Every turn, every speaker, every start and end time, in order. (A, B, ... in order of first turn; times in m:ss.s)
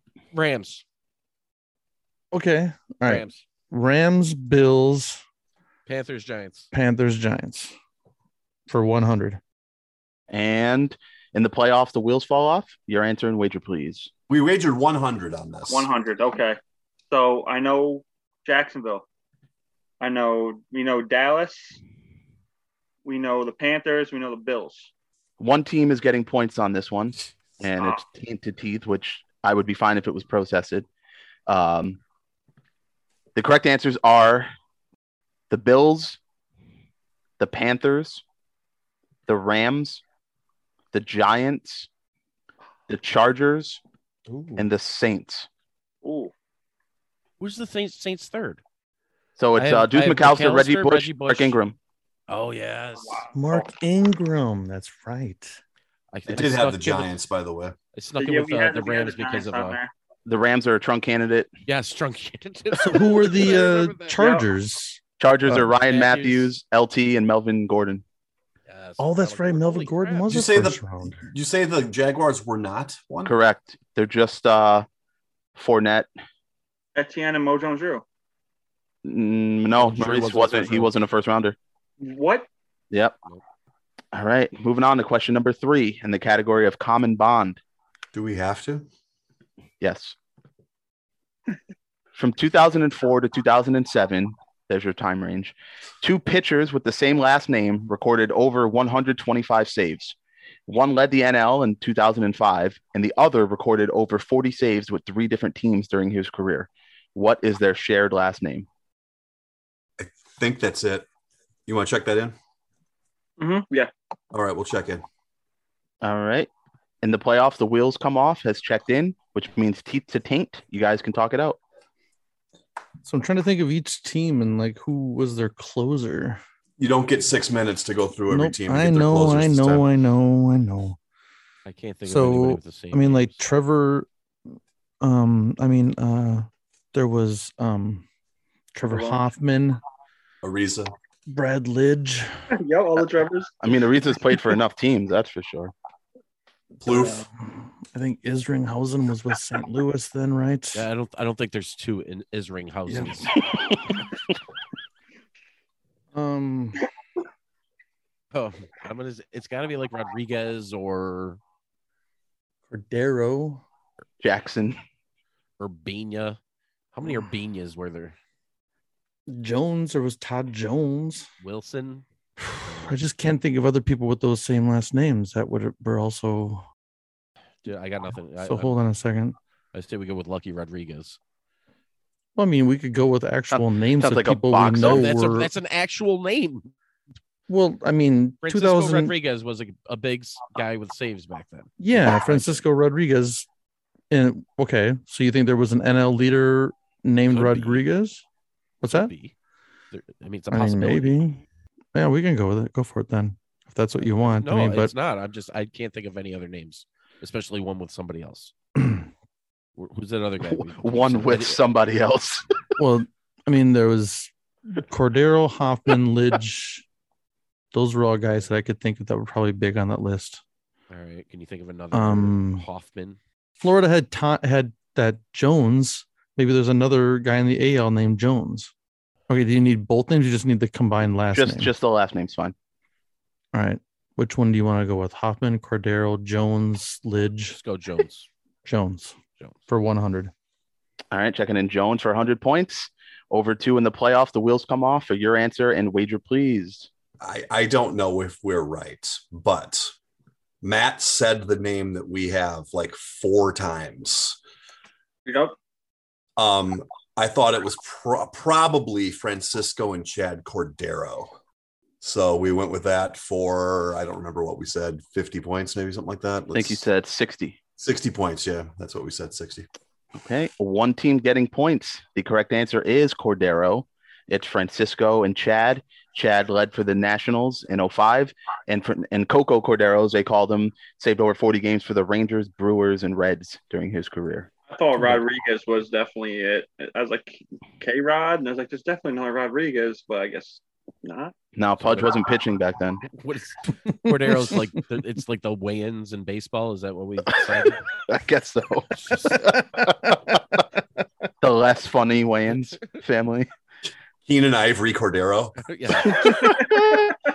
0:00.3-0:00.8 A
0:02.3-0:05.2 B
0:03.0-0:03.4 A
0:05.9-0:06.7 A
0:06.7-0:07.7 B
0:08.7-0:09.4 B
0:10.3-0:14.1 C
0:14.3-0:15.9 D
0:15.7-0:16.6 E
0:17.1-0:19.1 E
0:20.0-0:21.8 E
0:23.0-0:24.9 E
0:25.4-0:30.9 C
0:27.8-0:28.0 E
0:31.5-0:32.0 C
0:33.4-0:34.5 C
0:35.5-0:36.2 C
0:37.4-0:38.2 C
0:39.3-0:40.0 C
0:40.9-0:41.9 C
0:42.9-0:43.8 C
0:44.3-0:44.7 B
0:44.6-0:45.5 C
0:46.0-0:46.3 E
0:47.4-0:48.6 A
0:49.4-0:51.8 C
0:49.6-0:51.6 A
0:52.3-0:53.3 A
0:53.0-0:53.6 E
0:53.3-0:55.6 B
0:56.1-0:57.2 A
0:56.3-0:57.8 D
0:57.9-0:59.8 A
0:58.2-0:59.9 E
1:00.3-1:01.5 C
1:01.7-1:04.2 A
1:02.8-1:05.7 B
1:04.2-1:04.4 E
1:05.2-1:08.0 C
1:05.7-1:06.5 A
1:08.7-1:10.3 A
1:09.0-1:11.3 B
1:10.3-1:13.3 D
1:13.2-1:14.9 C
1:15.6-1:16.1 C
1:17.0-1:18.0 E
1:19.0-1:21.6 C
1:19.8-1:20.9 A
1:22.0-1:22.5 E
1:24.1-1:27.6 C
1:28.1-1:28.9 D
1:29.8-1:30.2 C
1:32.2-1:40.2 C
1:40.7-1:48.7 C
1:50.0-1:51.1 D
1:51.7-1:52.4 D
1:53.4-1:53.9 E
1:54.3-1:55.0 D
1:56.0-1:56.5 C
1:57.0-2:01.6 C
2:03.0-2:06.4 B
2:06.8-2:09.9 D
2:08.3-2:11.0 B
2:11.7-2:13.4 A
2:12.0-2:14.1 B
2:15.0-2:18.1 B
2:18.7-2:19.8 B
2:18.9-2:19.3 E
2:20.4-2:20.9 D
2:21.3-2:22.4 B
2:22.5-2:23.5 E
2:23.6-2:25.7 C
2:26.8-2:27.3 D
2:27.4-2:30.9 B
2:30.7-2:33.4 A
2:36.1-2:36.8 B
2:38.3-2:41.4 A
2:42.7-2:43.6 B
2:44.2-2:44.8 C
2:45.6-2:46.4 A
2:46.9-2:48.2 A
2:49.3-2:51.3 B
2:51.4-2:52.0 A
2:52.4-2:56.6 B
2:52.6-2:53.0 A
2:57.6-2:58.8 A
2:58.4-2:59.4 B
2:59.7-3:01.2 A
3:02.4-3:05.5 B
3:03.5-3:05.1 C
3:04.8-3:06.7 A
3:07.5-3:09.1 B
3:08.4-3:12.6 A
3:11.8-3:13.5 B
3:14.1-3:18.2 B
3:17.3-3:17.8 A
3:18.8-3:19.1 B
3:18.9-3:19.3 A
3:19.9-3:21.2 A
3:20.5-3:21.4 B
3:21.9-3:24.9 B
3:24.0-3:28.5 A
3:28.8-3:29.1 B
3:29.8-3:31.6 A
3:30.4-3:32.4 C
3:32.8-3:36.8 B
3:37.7-3:40.4 B
3:40.9-3:43.2 A
3:41.9-3:42.7 B
3:43.6-3:48.7 B
3:49.3-3:51.7 B
3:51.3-3:52.6 C
3:53.5-3:57.6 B
3:57.6-3:58.3 A
3:58.6-3:59.2 B
3:59.7-4:00.3 B
4:01.1-4:06.9 C
4:07.2-4:10.0 D
4:10.6-4:14.4 D
4:15.3-4:15.6 E
4:16.4-4:21.3 D
4:22.0-4:26.8 D
4:26.5-4:27.6 C
4:27.8-4:29.7 D
4:30.2-4:44.5 C
4:44.7-4:51.3 E
4:51.6-4:53.0 C
4:51.8-4:52.1 A
4:53.1-4:57.8 A
4:54.0-4:54.6 B
4:57.7-5:00.4 C
5:01.4-5:03.5 C
5:04.3-5:05.6 D
5:05.6-5:06.6 A
5:06.1-5:07.2 C